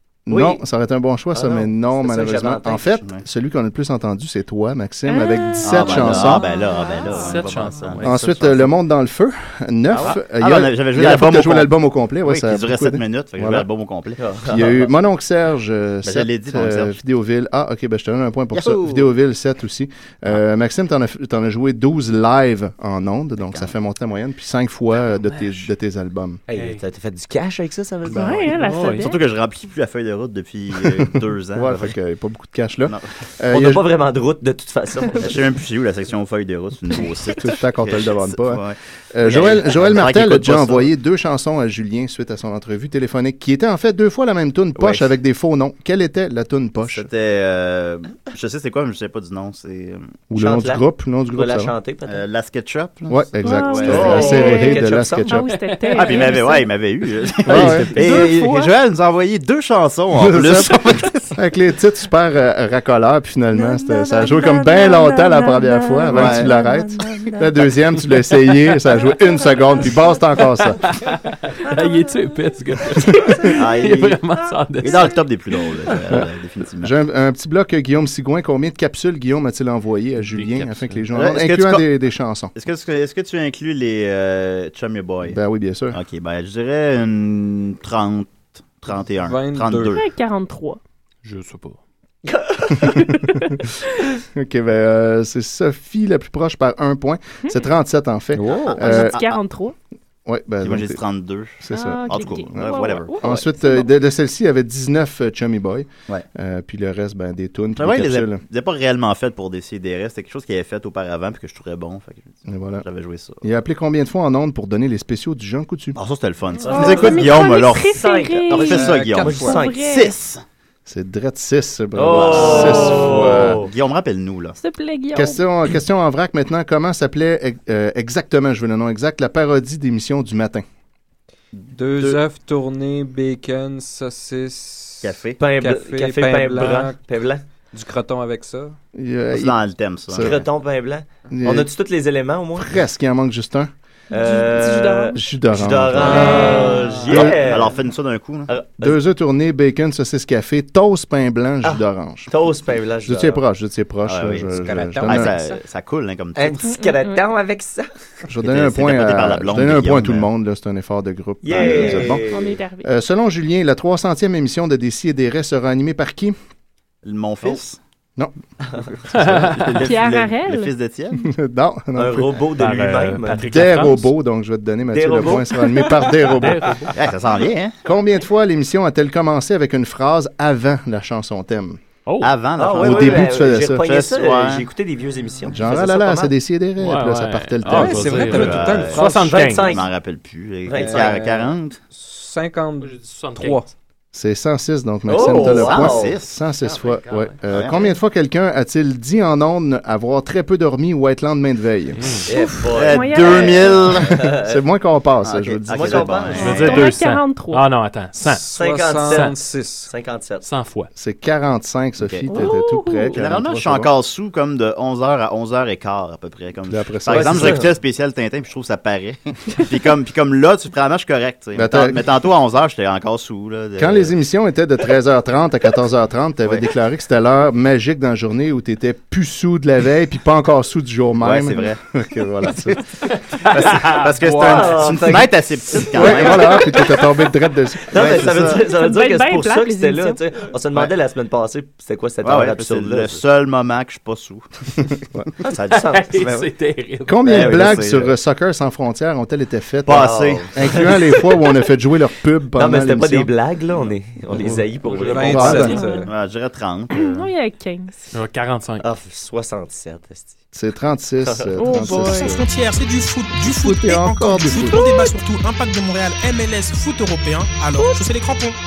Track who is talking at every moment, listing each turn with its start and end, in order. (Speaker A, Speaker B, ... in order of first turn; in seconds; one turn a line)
Speaker A: 0.3-6.5
Speaker B: 0.3-0.6
Speaker B: 1.3-3.0
Speaker C: 5.1-7.6
Speaker D: 5.6-8.7
Speaker E: 7.1-8.3
Speaker A: 8.0-13.7
Speaker D: 9.9-11.7
Speaker D: 12.2-14.7
Speaker B: 14.2-14.8
Speaker A: 14.4-26.4
Speaker D: 16.0-17.0
Speaker D: 18.5-19.1
Speaker D: 23.4-23.7
Speaker E: 25.3-25.6
Speaker B: 26.5-28.6
Speaker E: 26.5-26.8
Speaker C: 28.1-29.2
Speaker A: 28.1-28.4
Speaker E: 28.6-29.1
Speaker D: 28.9-31.9
Speaker A: 31.5-33.8
Speaker B: 33.5-35.3
Speaker D: 35.2-40.9
Speaker A: 37.3-38.6
Speaker A: 39.1-47.1
Speaker D: 44.8-45.1
Speaker D: 46.9-50.1
Speaker A: 50.3-51.7
Speaker B: 50.3-50.8
Speaker B: 51.3-52.2
Speaker D: 52.1-54.5
Speaker A: 53.1-55.5
Speaker C: 53.4-56.8
Speaker B: 53.9-55.4
Speaker E: 55.5-56.1
Speaker D: 55.9-61.3
Speaker C: 57.3-58.8
Speaker A: 57.5-57.9
Speaker A: 60.1-70.8
Speaker C: 63.5-67.7
Speaker D: 66.1-66.5
Speaker C: 69.0-70.2
Speaker E: 70.8-75.2
Speaker C: 71.7-72.5
Speaker D: 73.5-74.2
Speaker C: 74.4-75.2
Speaker D: 74.8-76.9
Speaker A: 76.8-82.5
Speaker E: 80.2-81.0
Speaker D: 81.1-81.8
Speaker D: 82.5-85.4
Speaker A: 85.2-86.0
Speaker D: 85.9-90.0
Speaker F: 89.2-90.0
Speaker C: 89.9-90.8
Speaker E: 91.2-91.8
Speaker B: 92.2-93.0
Speaker A: 94.3-99.2
Speaker F: 98.3-98.9
Speaker C: 98.7-99.7
Speaker D: 98.8-99.4
Speaker A: 100.2-101.0
Speaker D: 100.6-103.4
Speaker A: 101.6-108.4
Speaker C: 101.7-103.9
Speaker D: 107.8-113.4
Speaker A: 112.5-112.8
Speaker A: 113.4-116.0
Speaker D: 115.9-120.4
Speaker B: 116.6-119.8
Speaker C: 116.6-120.2
Speaker F: 118.7-119.5
Speaker A: 120.8-123.6
Speaker B: 121.9-123.7
Speaker D: 122.1-124.6
Speaker C: 122.4-123.0
Speaker C: 124.5-125.4
Speaker A: 125.1-130.6
Speaker D: 131.5-132.2
Speaker F: 131.7-137.0
Speaker D: 135.0-135.4
Speaker B: 135.4-137.4
Speaker F: 137.7-138.8
Speaker A: 138.9-140.4
Speaker D: 139.3-140.3
Speaker B: 140.2-142.7
Speaker A: 141.3-141.7
Speaker A: 142.6-143.7
Speaker C: 144.1-145.2
Speaker B: 144.1-147.7
Speaker A: 145.1-147.6
Speaker D: 146.0-148.5
Speaker C: 146.0-146.9
Speaker B: 148.5-148.9
Speaker A: 148.8-152.3
Speaker B: 151.6-153.4
Speaker A: 153.0-155.3
Speaker D: 154.1-156.7
Speaker F: 154.5-155.3
Speaker B: 156.3-157.9
Speaker C: 156.7-157.2
Speaker A: 158.3-162.2
Speaker D: 158.4-160.3
Speaker B: 161.4-162.6
Speaker C: 161.6-162.9
Speaker A: 162.8-166.3
Speaker D: 167.0-167.8
Speaker D: 169.0-171.3
Speaker E: 169.1-169.8
Speaker C: 169.6-170.7
Speaker A: 171.2-172.3
Speaker B: 171.9-173.5
Speaker E: 172.6-174.1
Speaker A: 173.5-176.8
Speaker B: 174.9-176.1
Speaker E: 176.4-176.9
Speaker D: 176.9-177.7
Speaker A: 177.8-181.8
Speaker E: 182.1-182.3
Speaker D: 182.2-184.7
Speaker B: 182.6-186.3
Speaker A: 182.8-183.8
Speaker A: 185.4-188.3
Speaker E: 186.8-189.8
Speaker F: 187.6-189.3
Speaker D: 188.2-191.8
Speaker B: 188.9-189.9
Speaker B: 190.7-191.1
Speaker F: 190.7-193.7
Speaker E: 192.8-193.6
Speaker A: 194.1-202.2
Speaker B: 195.1-196.2
Speaker D: 195.1-196.4
Speaker E: 196.9-197.3
Speaker D: 197.5-197.9
Speaker E: 202.0-202.3
Speaker B: 202.3-204.6
Speaker C: 202.3-204.0
Speaker D: 202.7-204.3
Speaker A: 204.4-206.4
Speaker D: 205.2-206.9
Speaker B: 205.7-206.9
Speaker E: 206.4-208.4
Speaker C: 206.4-207.7
Speaker F: 208.2-209.9
Speaker B: 208.5-210.4
Speaker E: 210.4-210.9
Speaker A: 210.9-213.9
Speaker D: 212.0-212.4
Speaker C: 212.3-213.2
Speaker D: 213.1-224.1
Speaker A: 216.7-217.6
Speaker B: 217.1-217.7
Speaker A: 221.6-222.1
Speaker A: 223.8-232.8
Speaker D: 231.2-231.8
Speaker E: 233.1-235.0
Speaker D: 233.5-236.8
Speaker B: 234.3-236.5
Speaker A: 235.9-238.4
Speaker B: 237.9-243.2
Speaker D: 237.9-238.6
Speaker C: 238.5-240.2
Speaker D: 242.2-245.0
Speaker B: 245.4-246.1
Speaker D: 245.5-246.5
Speaker E: 245.7-247.6
Speaker A: 247.1-253.3
Speaker D: 247.2-248.1
Speaker D: 249.8-250.5
Speaker B: 249.9-251.3
Speaker B: 252.5-256.1
Speaker F: 254.9-256.1
Speaker C: 255.2-256.1
Speaker A: 255.3-255.8
Speaker D: 256.1-257.3
Speaker C: 256.9-257.9
Speaker E: 258.1-258.8
Speaker B: 258.8-260.4
Speaker A: 260.5-262.4
Speaker B: 261.2-261.5
Speaker C: 261.6-262.4
Speaker G: 261.8-268.5
Speaker A: 263.3-264.9
Speaker C: 264.5-265.2